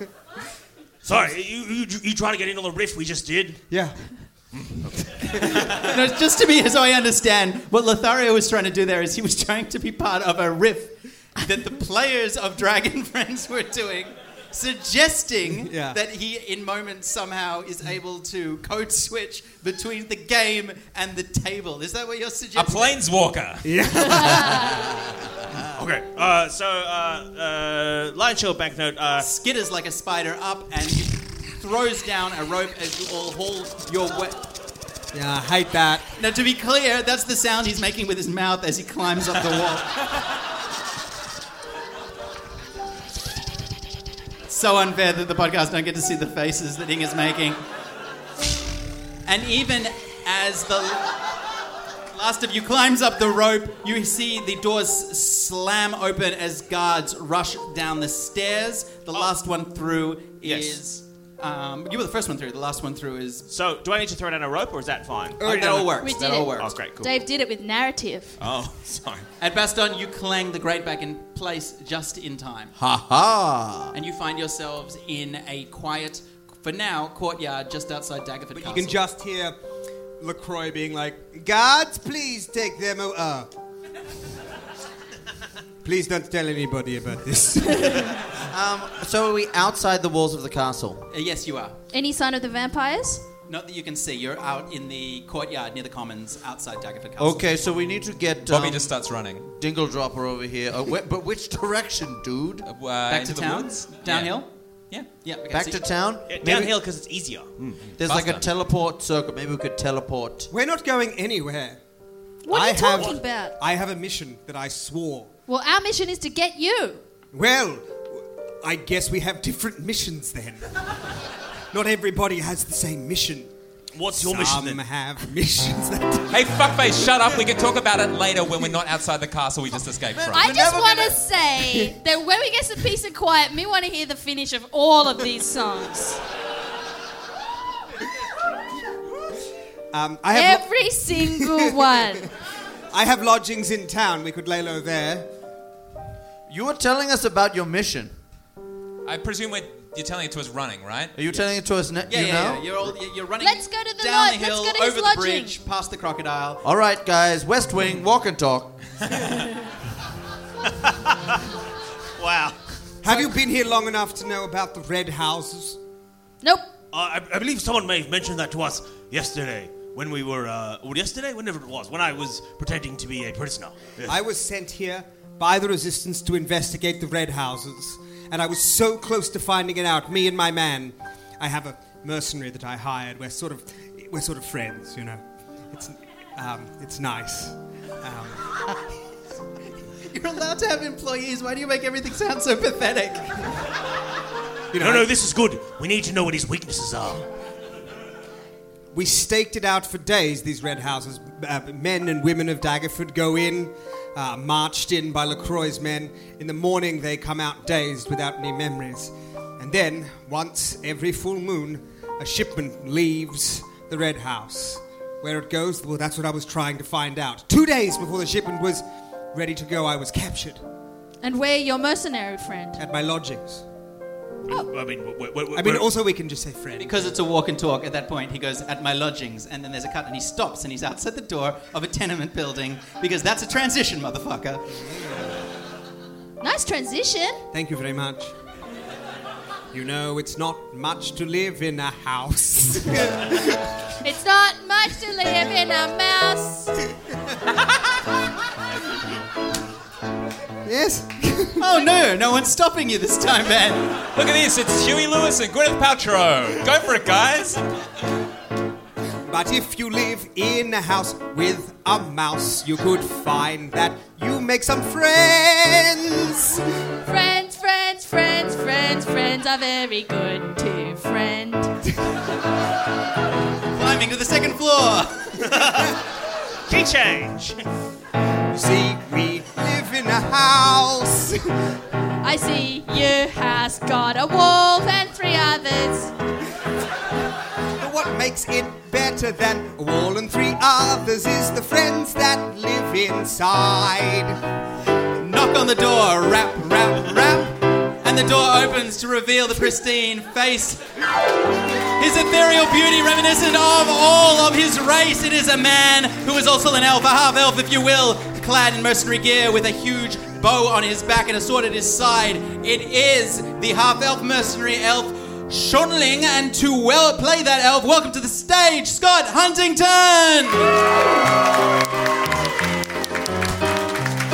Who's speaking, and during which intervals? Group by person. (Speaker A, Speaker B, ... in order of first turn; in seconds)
Speaker A: 1.0-3.6, 4.5-5.9, 25.8-29.3, 60.4-60.8, 63.5-65.8, 66.6-67.1, 68.4-69.3, 106.3-107.9, 124.0-124.8, 160.8-161.4, 162.2-162.6, 166.9-174.2, 194.8-197.3, 224.5-225.9, 275.4-275.9, 276.7-277.6
Speaker B: 3.7-4.0, 5.2-5.8, 15.5-16.0, 23.6-24.9, 35.1-36.1, 65.6-65.8, 78.5-79.6, 80.2-83.5, 85.8-88.1, 110.5-111.8, 112.5-115.3, 117.3-118.1, 118.6-120.7, 121.7-123.5, 124.2-126.4, 139.9-141.7, 142.9-145.3, 163.0-165.8, 174.1-188.5, 194.7-195.1, 198.9-220.6, 222.8-223.6, 225.5-227.0, 234.8-235.3, 237.5-238.3, 239.7-243.8, 250.7-251.7, 259.3-266.7, 278.5-281.5, 287.8-294.4
Speaker C: 5.5-23.1, 29.2-34.5, 36.2-40.0, 44.5-47.6, 49.2-51.2, 52.1-63.5, 65.4-66.8, 69.4-72.7, 73.9-79.0, 91.1-91.8, 93.5-97.6, 103.1-104.5, 105.1-105.8, 152.1-156.6, 190.1-193.3, 226.8-234.7, 251.6-254.0, 273.7-275.4, 295.2-300.8, 301.9-320.7
Speaker D: 22.6-23.8, 98.5-99.5, 102.7-105.1, 108.0-108.5, 126.3-130.5, 149.1-151.1, 254.1-257.6
Speaker E: 24.2-24.8, 66.0-68.4, 91.9-93.3, 112.5-113.6, 115.5-117.0, 130.3-136.2, 140.3-142.3, 153.4-155.6, 166.4-166.7, 221.2-222.8, 236.4-237.4, 244.0-246.7, 267.0-271.7, 282.2-286.1
Speaker F: 72.8-74.0, 88.5-91.1, 97.2-98.9, 99.6-102.7, 105.5-106.7, 108.0-110.5, 130.2-131.2, 146.5-148.1, 151.2-153.0, 156.6-158.8